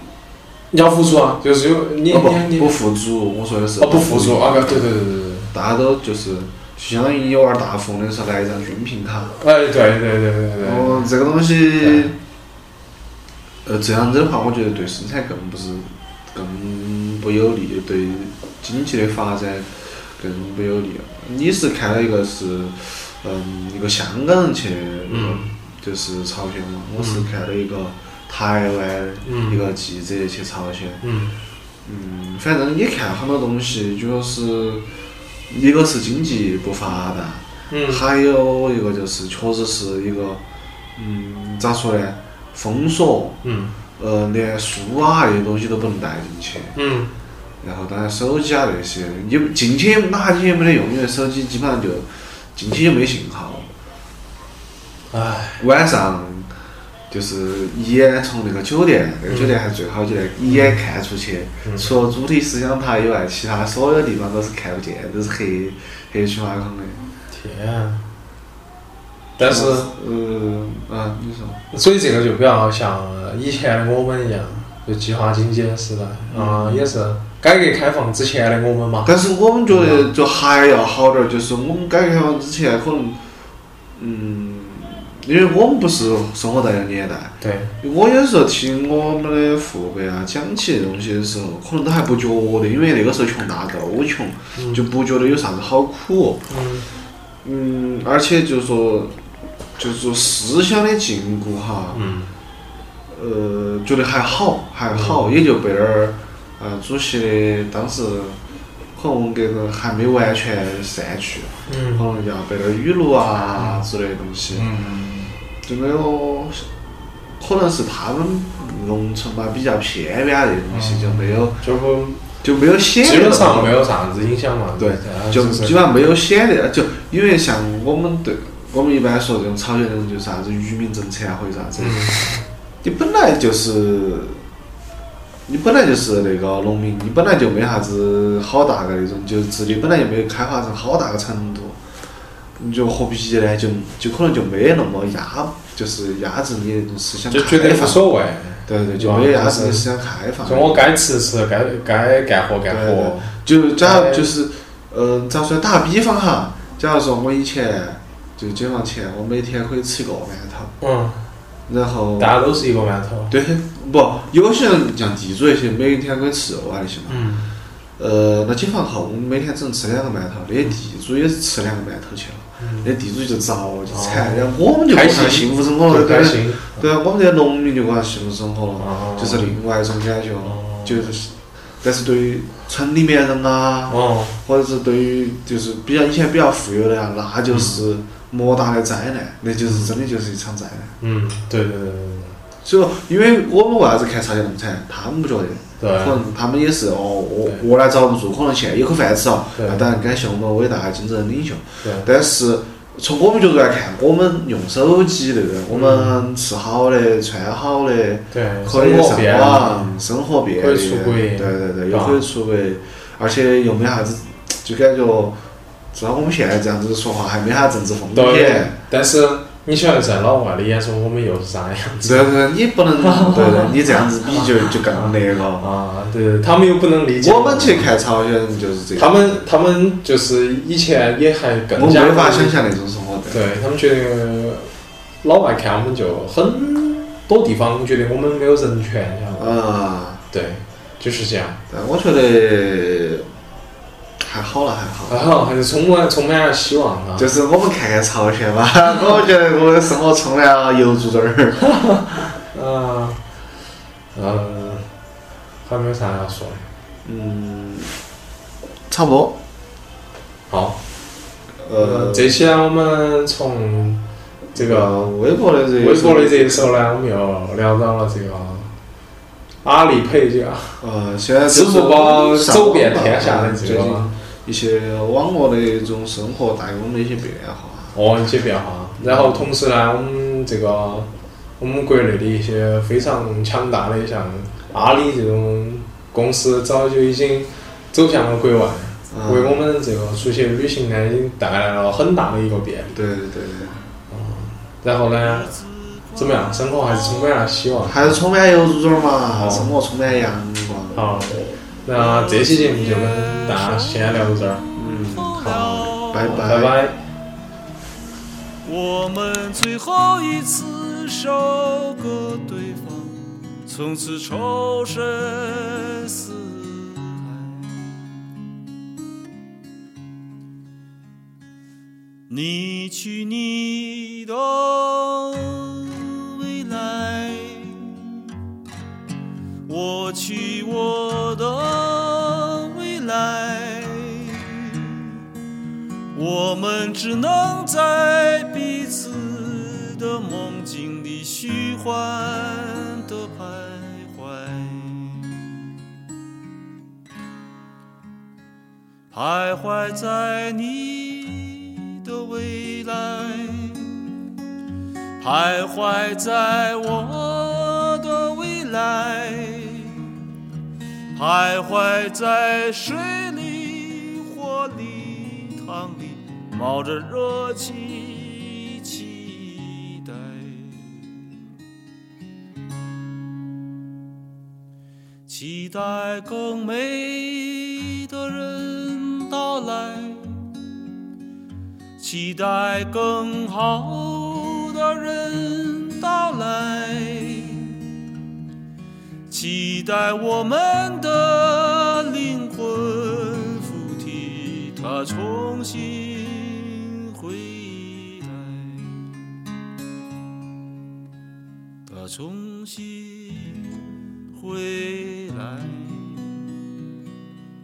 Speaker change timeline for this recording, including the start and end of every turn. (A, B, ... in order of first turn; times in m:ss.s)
0:00.7-0:02.8 A
0:02.1-0:04.9 B
0:03.8-0:05.5 A
0:05.5-0:09.4 B
0:09.4-0:11.1 A
0:10.6-0:12.2 B
0:11.8-0:12.1 A
0:13.6-0:31.0 B
0:25.1-0:25.5 A
0:27.0-0:27.3 A
0:29.2-0:29.6 A
0:31.0-0:31.4 A
0:31.8-0:34.8 B
0:35.5-0:40.4 B
0:37.7-0:38.0 A
0:41.0-0:43.4 B
0:43.4-0:43.8 A
0:44.0-0:46.8 B
0:46.8-0:47.1 A
0:47.6-0:53.7 B
0:55.1-0:55.6 A
0:55.6-0:56.5 B
0:57.1-1:07.0 B
0:59.3-0:59.6 A
1:00.5-1:00.8 A
1:01.6-1:01.9 A
1:07.3-1:08.0 A
1:09.4-1:09.9 A
1:09.4-1:11.6 B
1:11.7-1:19.2 A
1:16.3-1:16.9 B
1:19.0-1:23.2 B
1:19.7-1:20.1 A
1:24.0-1:36.4 B
1:27.4-1:27.7 A
1:34.6-1:34.8 A
1:36.5-1:36.9 A
1:37.4-1:39.2 B
1:39.8-1:42.0 B
1:41.9-1:42.3 A
1:43.1-1:48.4 B
1:44.9-1:45.3 A
1:49.0-1:54.7 B
1:51.7-1:52.1 A
1:53.6-1:53.9 A
1:54.5-1:55.3 A
1:55.6-1:56.7 B
1:57.4-2:01.6 B
2:00.7-2:02.2 A
2:02.4-2:03.8 B
2:03.0-2:05.8 A
2:04.8-2:12.2 B
2:11.8-2:12.5 A
2:12.8-2:14.4 B
2:15.5-2:21.8 B
2:22.6-2:28.0 B
2:27.3-2:29.9 A
2:28.7-2:30.9 B
2:30.4-2:34.3 A
2:32.7-2:40.7 B
2:40.8-2:41.2 A
2:41.7-2:42.4 B
2:42.2-2:43.4 A
2:43.3-2:47.2 B
2:47.1-2:47.5 A
2:48.0-3:11.0 B
2:52.6-2:52.9 A
2:53.9-2:56.8 A
2:58.8-2:59.6 A
3:00.4-3:01.1 A
3:03.9-3:04.4 A
3:07.5-3:07.8 A
3:09.6-3:09.9 A
3:11.0-3:12.4 A
3:12.6-3:35.4 B
3:15.8-3:16.2 A
3:19.6-3:19.9 A
3:25.7-3:26.2 A
3:28.3-3:29.9 A
3:30.6-3:32.2 A
3:35.9-3:38.8 B
3:38.1-3:42.3 A
3:42.0-3:45.6 B
3:43.0-3:47.9 A
3:47.2-3:49.4 B
3:49.0-3:52.6 A
3:51.8-3:53.4 B
3:53.3-3:54.7 A
3:55.2-3:59.5 A
3:59.4-4:00.2 B
4:00.3-4:01.6 A
4:01.7-4:03.3 B
4:04.2-4:05.2 B
4:05.1-4:07.3 A
4:07.2-4:11.6 B
4:11.6-4:13.2 A
4:14.2-4:14.9 A
4:15.6-4:16.7 A
4:17.0-4:17.9 B
4:18.9-4:19.4 B
4:20.5-4:20.8 A
4:21.6-4:22.4 B
4:21.8-4:24.0 A
4:24.6-4:25.1 A
4:24.6-4:26.7 B
4:25.8-4:28.7 A
4:29.6-4:30.8 A
4:30.8-4:38.0 B
4:31.5-4:34.1 A
4:37.9-4:53.0 A
4:39.0-4:39.5 B
4:49.1-4:49.7 B
4:52.9-4:53.9 B
4:54.1-4:55.5 A
4:55.2-4:57.3 C
4:56.2-4:58.2 A
4:57.9-5:01.0 B
4:59.3-4:59.7 A
5:00.9-5:04.6 A
5:02.5-5:06.3 C
5:04.8-5:06.8 B
5:06.3-5:07.0 A
5:08.6-5:18.0 C
5:22.3-5:28.3 C
5:29.6-5:35.2 C
5:36.1-5:45.7 C
5:49.1-5:54.1 C
5:55.2-6:00.2 C
6:01.2-6:11.2 C
6:15.3-6:20.5 C
6:22.0-6:27.8 C
6:29.3-6:39.2 C
6:41.9-6:46.6 C